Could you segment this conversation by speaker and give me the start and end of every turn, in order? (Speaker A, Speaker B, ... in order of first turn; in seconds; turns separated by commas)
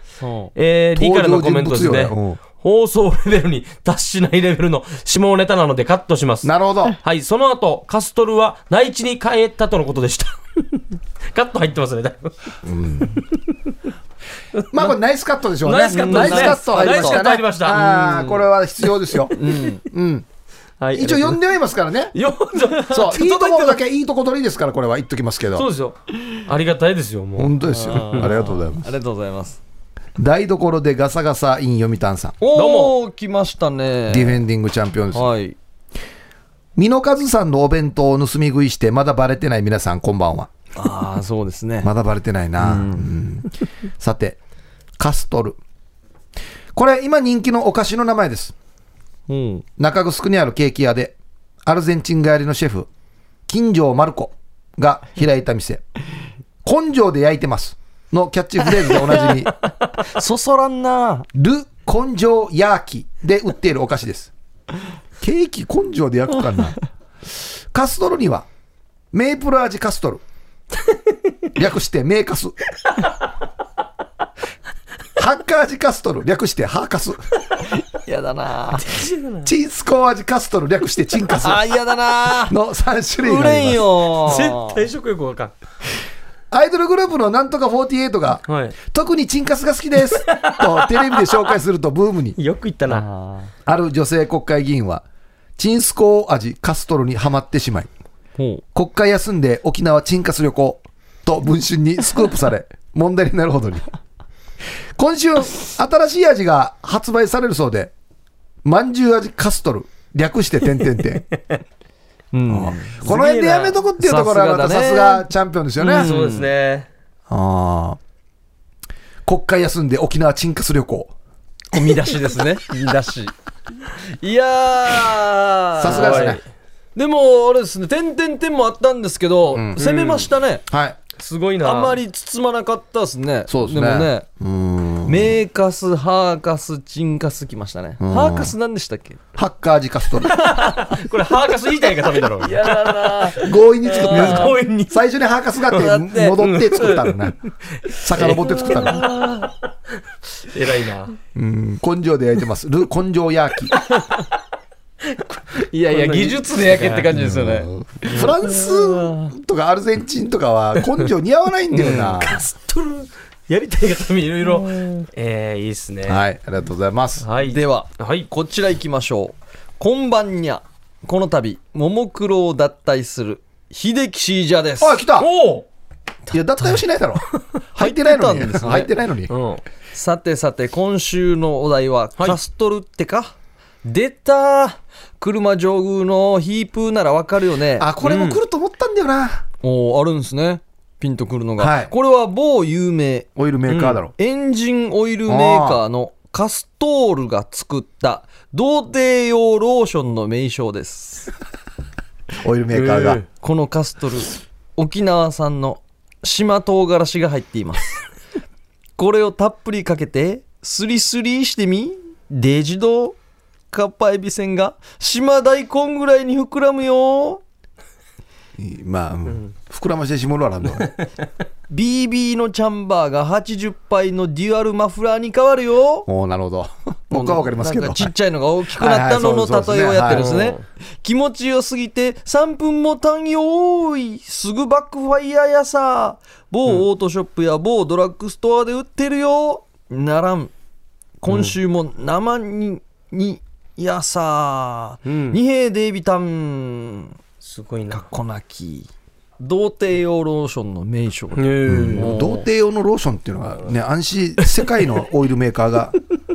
Speaker A: 0.2-0.5, Speaker B: 0.6-12.6, Speaker C: 0.9-2.4, Speaker C: 6.4-7.0, Speaker C: 12.7-13.1, Speaker B: 14.6-14.9, Speaker C: 14.7-20.3, Speaker B: 15.6-17.8, Speaker A: 15.8-18.4, Speaker A: 19.4-19.8, Speaker B: 20.8-21.4, Speaker C: 20.9-22.1, Speaker B: 22.1-23.8, Speaker C: 22.9-25.7, Speaker B: 25.6-28.3, Speaker C: 27.4-28.9, Speaker A: 27.6-29.6, Speaker C: 30.2-32.4, Speaker A: 32.4-34.4, Speaker B: 32.5-33.0, Speaker C: 34.1-35.3, Speaker A: 35.1-35.6, Speaker C: 36.8-40.5, Speaker A: 40.8-41.9, Speaker C: 41.8-44.4, Speaker A: 42.6-43.1, Speaker C: 45.0-45.6, Speaker C: 46.8-48.5, Speaker A: 49.3-49.6, Speaker C: 49.8-52.9, Speaker C: 53.5-55.8, Speaker C: 56.6-59.5, Speaker A: 58.9-59.5, Speaker A: 60.1-61.3, Speaker C: 61.4-64.3, Speaker C: 65.2-66.8, Speaker C: 67.7-68.5, Speaker C: 69.1-70.2, Speaker C: 71.6-72.5, Speaker C: 75.2-77.2, Speaker A: 78.0-78.9, Speaker B: 78.8-79.5, Speaker C: 79.4-81.7, Speaker A: 81.4-82.6, Speaker C: 82.4-83.8, Speaker A: 83.2-84.8, Speaker B: 84.3-85.5, Speaker C: 86.5-92.4, Speaker B: 88.5-88.8, Speaker B: 90.1-91.3, Speaker B: 92.4-93.1, Speaker A: 92.9-93.5, Speaker C: 93.7-95.0, Speaker C: 95.6-97.9, Speaker A: 98.4-98.6, Speaker C: 98.8-103.8, Speaker C: 105.0-107.9, Speaker C: 108.6-111.2, Speaker A: 112.3-113.1, Speaker C: 112.5-116.1, Speaker B: 113.0-113.8, Speaker A: 114.0-115.3, Speaker A: 115.8-116.5, Speaker B: 115.8-116.9, Speaker C: 117.3-118.0, Speaker C: 119.2-121.1, Speaker A: 121.7-123.3, Speaker A: 124.2-126.4, Speaker C: 125.8-126.4, Speaker B: 125.8-126.4, Speaker A: 127.0-130.6, Speaker C: 129.5-129.8, Speaker B: 129.8-130.3, Speaker C: 130.7-131.0, Speaker B: 131.2-132.0, Speaker A: 131.6-134.3, Speaker C: 133.5-135.4, Speaker A: 135.1-139.2, Speaker C: 138.0-138.5, Speaker C: 139.3-140.5, Speaker B: 140.3-143.4, Speaker A: 140.4-140.9, Speaker A: 142.2-144.6, Speaker C: 143.4-147.4, Speaker B: 143.9-145.0, Speaker A: 145.7-146.9, Speaker B: 146.4-147.1, Speaker C: 147.9-149.1, Speaker B: 148.2-149.5, Speaker A: 148.7-149.5, Speaker B: 150.5-151.1, Speaker C: 151.3-153.7, Speaker B: 155.1-157.1, Speaker A: 155.7-159.3, Speaker C: 157.1-162.4, Speaker B: 161.7-166.2, Speaker C: 166.1-167.3, Speaker B: 167.2-168.3, Speaker A: 167.5-175.0, Speaker C: 174.8-175.3, Speaker B: 175.2-175.7, Speaker A: 176.3-176.8, Speaker C: 176.3-179.3, Speaker A: 177.8-178.9, Speaker B: 179.3-179.6, Speaker A: 179.9-183.3, Speaker A: 183.8-187.9, Speaker C: 187.8-189.4, Speaker B: 188.0-188.4, Speaker A: 189.6-193.3, Speaker C: 191.6-191.9, Speaker C: 193.4-194.1, Speaker B: 193.7-194.0, Speaker A: 194.2-201.3, Speaker C: 195.3-195.8, Speaker C: 202.4-203.2, Speaker B: 202.7-203.2, Speaker A: 203.4-208.0, Speaker A: 209.0-213.2, Speaker A: 213.7-217.4, Speaker C: 218.6-220.9, Speaker A: 221.7-226.1, Speaker C: 226.1-228.1, Speaker A: 227.1-240.5, Speaker C: 228.8-230.3, Speaker B: 230.1-230.6, Speaker A: 241.2-247.1, Speaker B: 241.3-241.6, Speaker B: 245.1-245.4, Speaker B: 247.4-248.0, Speaker A: 247.9-248.9, Speaker A: 249.4-252.5, Speaker B: 251.3-252.1, Speaker C: 251.7-256.0